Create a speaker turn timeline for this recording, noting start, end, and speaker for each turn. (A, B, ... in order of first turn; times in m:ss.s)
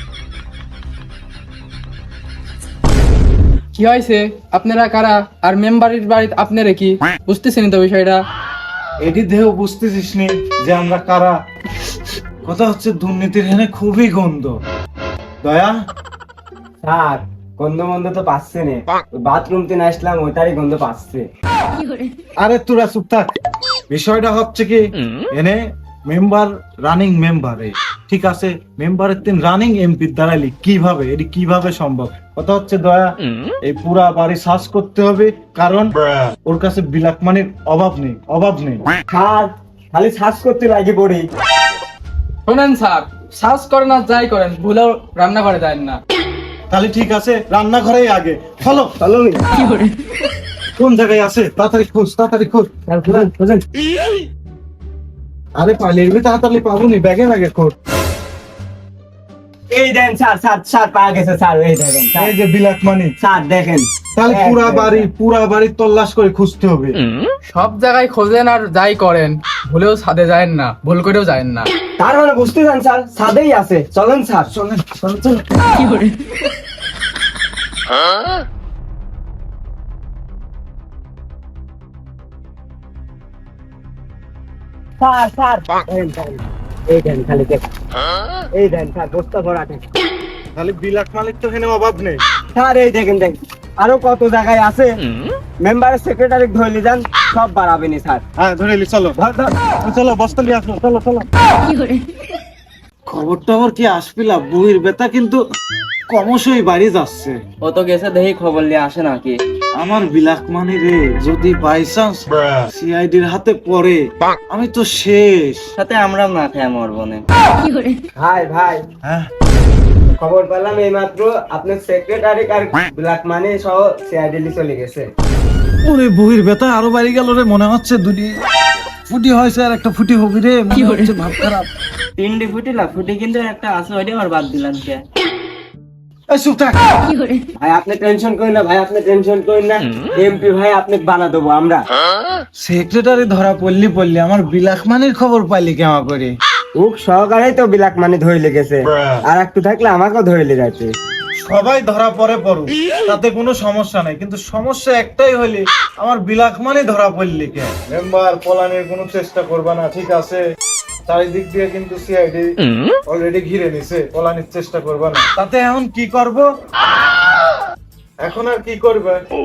0:03.8-0:08.2 A
0:09.0-0:11.4 B
0:12.4-0:14.6 B
0:15.4-0:15.8 B
0:16.8-0:21.2 C
0:22.4-0:23.3 B
0:23.9-0:24.8 B
0:25.3-0:33.1 B
0:33.6-0:38.9 B
0:39.1-0:41.2 C
0:42.5-0:46.0 A
0:46.7-0:48.9 B
0:49.0-0:49.4 C
0:50.8-0:53.4 B
0:52.9-0:53.6 C
0:55.6-0:57.8 B
0:59.7-1:02.3 C
1:02.2-1:03.1 B
1:03.2-1:05.1 C
1:04.2-1:07.0 B
1:07.5-1:11.7 A
1:12.0-1:14.5 C
1:14.5-1:15.4 B
1:25.0-1:27.6 C
1:28.6-1:29.9 C
1:30.6-1:32.2 B
1:32.6-1:34.9 C
1:35.6-1:38.2 C
1:38.4-1:39.2 B
1:39.2-1:39.6 C
1:39.8-1:41.3 B
1:43.1-1:45.4 B
1:46.1-1:47.4 B
1:47.6-1:49.4 D
1:49.8-1:55.7 B
1:55.8-1:57.2 D
1:58.2-1:58.8 C
1:59.0-1:59.3 B
2:00.2-2:05.1 C
2:05.8-2:08.3 B
2:09.1-2:11.7 B
2:12.2-2:15.0 D
2:16.3-2:16.8 B
2:17.6-2:21.8 C
2:22.6-2:26.3 B
2:26.8-2:30.9 C
2:28.8-2:29.2 B
2:31.4-2:40.4 B
2:41.1-2:42.5 B
2:43.1-2:46.5 B
2:48.2-2:49.2 B